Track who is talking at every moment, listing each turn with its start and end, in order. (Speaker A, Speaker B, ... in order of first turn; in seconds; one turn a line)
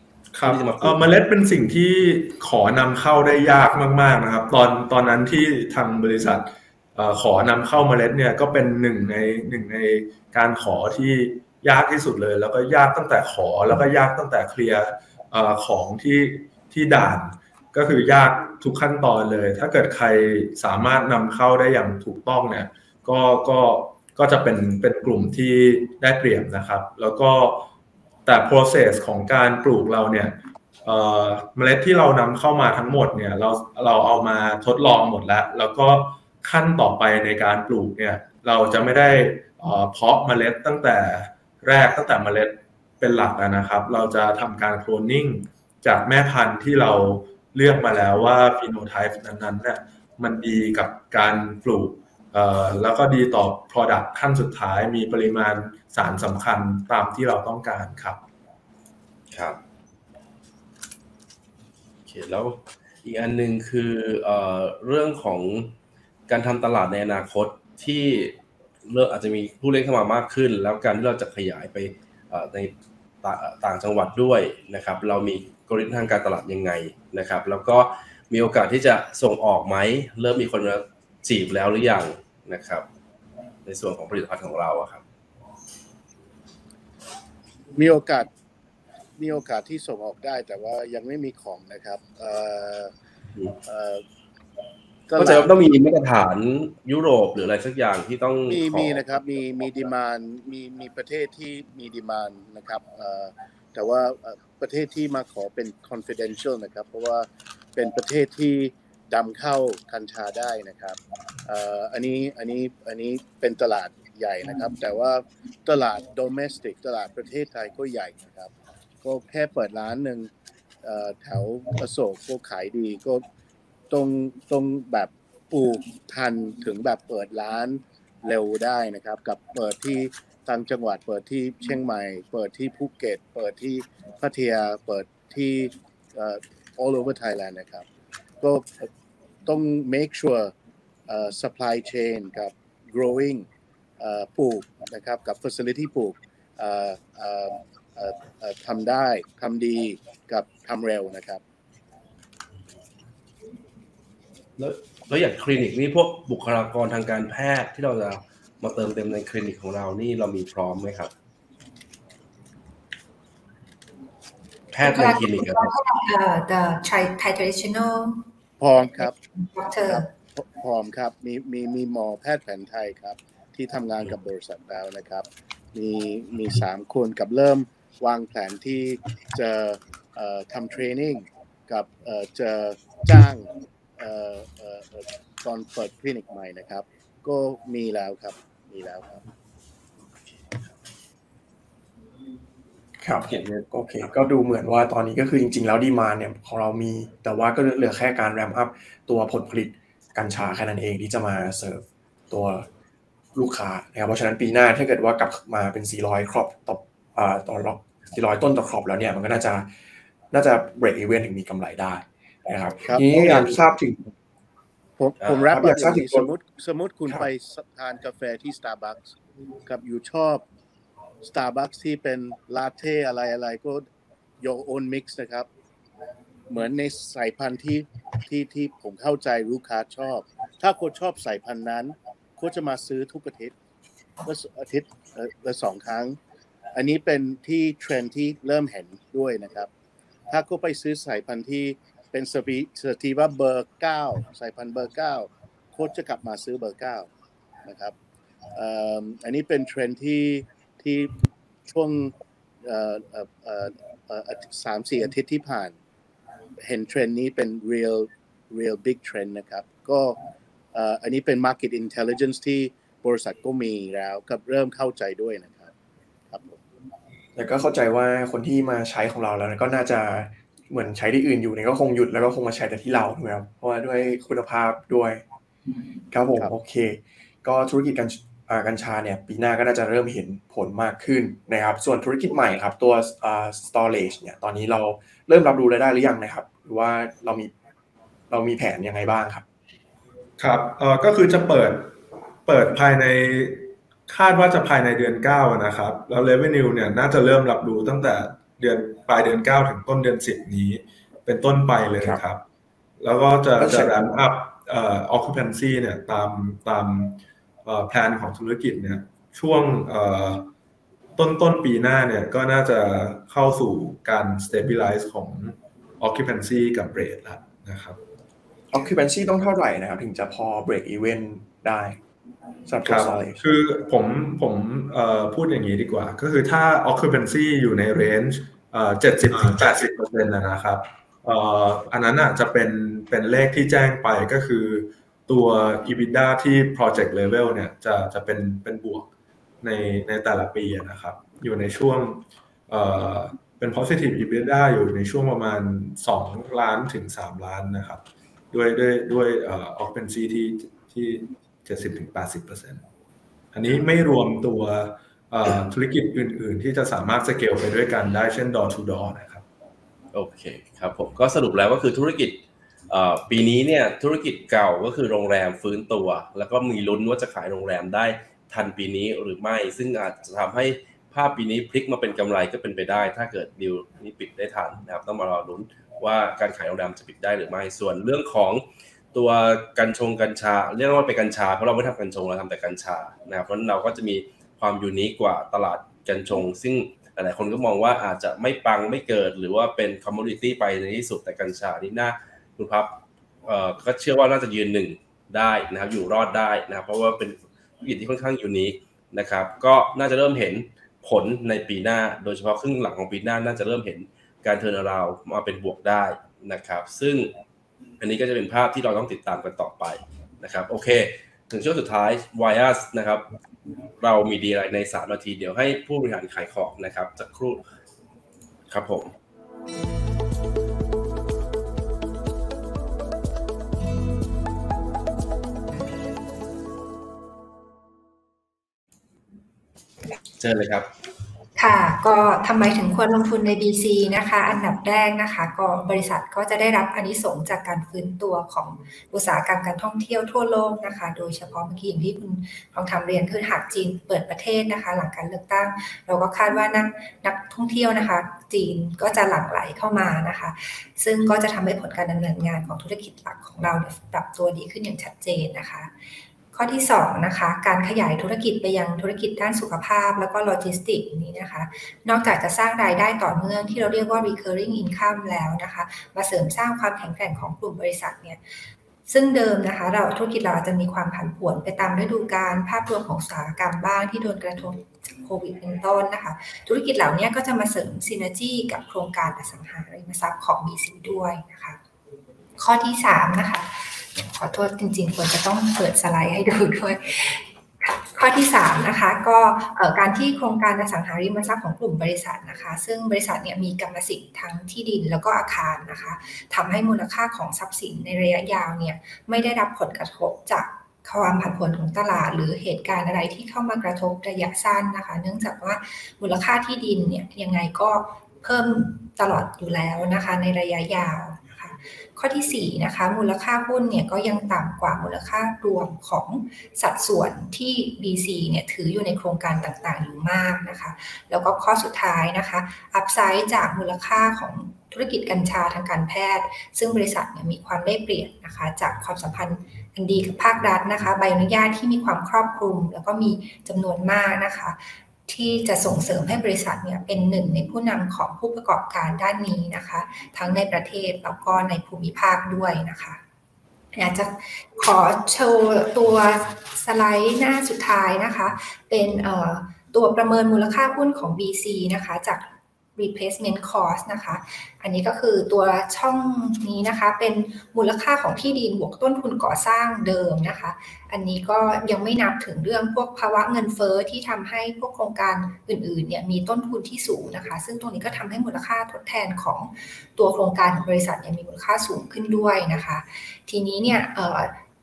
Speaker A: 0.3-27.7
Speaker B: 0.4-1.1
Speaker A: 28.2-58.2
Speaker B: 59.3-59.6
Speaker B: 62.1-65.7
Speaker B: 66.3-82.9
Speaker B: 83.6-85.0
Speaker C: 87.7-88.3
Speaker C: 89.2-92.9
Speaker C: 93.7-94.0
Speaker C: 95.1-95.5
Speaker B: 95.2-99.0
Speaker C: 98.5-118.5
Speaker C: 119.0-120.3
Speaker C: 120.8-123.2
Speaker C: 123.9-137.8
Speaker C: 138.4-138.9
Speaker C: 139.4-140.5
Speaker C: 141.1-143.5
Speaker C: 144.0-151.4
Speaker B: 154.6-161.1
Speaker B: 164.7-165.7
Speaker D: 164.8-168.2
Speaker C: 168.6-169.1
Speaker D: 169.0-170.1
Speaker C: 169.8-189.2
Speaker B: 190.2-190.7
Speaker E: 193.0-202.7
Speaker B: 193.3-193.6
Speaker E: 203.3-209.7
Speaker E: 210.3-214.1
Speaker C: 212.8-213.6
Speaker C: 215.0-219.1
Speaker B: 215.2-215.6
Speaker E: 215.5-216.3
Speaker C: 219.7-220.4
Speaker C: 221.2-223.9
Speaker C: 224.4-225.5
Speaker C: 226.5-233.5
Speaker C: 234.2-236.2
Speaker C: 236.7-239.7
Speaker C: 240.3-247.1
Speaker C: 247.7-247.9
Speaker C: 248.5-251.1
Speaker C: 251.7-255.8
Speaker C: 256.6-260.1
Speaker C: 260.7-265.7
Speaker C: 266.3-266.6
Speaker E: 267.4-275.2
Speaker E: 276.1-287.5
Speaker E: 288.3-289.4
Speaker A: 290.4-302.4
Speaker A: 303.0-310.5
Speaker E: 303.6-303.9
Speaker A: 311.2-318.0
Speaker E: 318.7-322.0
Speaker E: 322.7-323.4
Speaker A: 322.8-339.1
Speaker A: 339.6-352.8
Speaker A: 353.5-359.4
Speaker B: 360.1-392.9
Speaker B: 393.4-407.3
Speaker B: 408.0-413.3
Speaker B: 414.0-417.6
Speaker B: 418.7-419.1
Speaker B: 430.4-430.9
Speaker D: 431.6-455.9
Speaker D: 456.5-481.8
Speaker D: 482.6-543.2
Speaker D: 543.9-574.5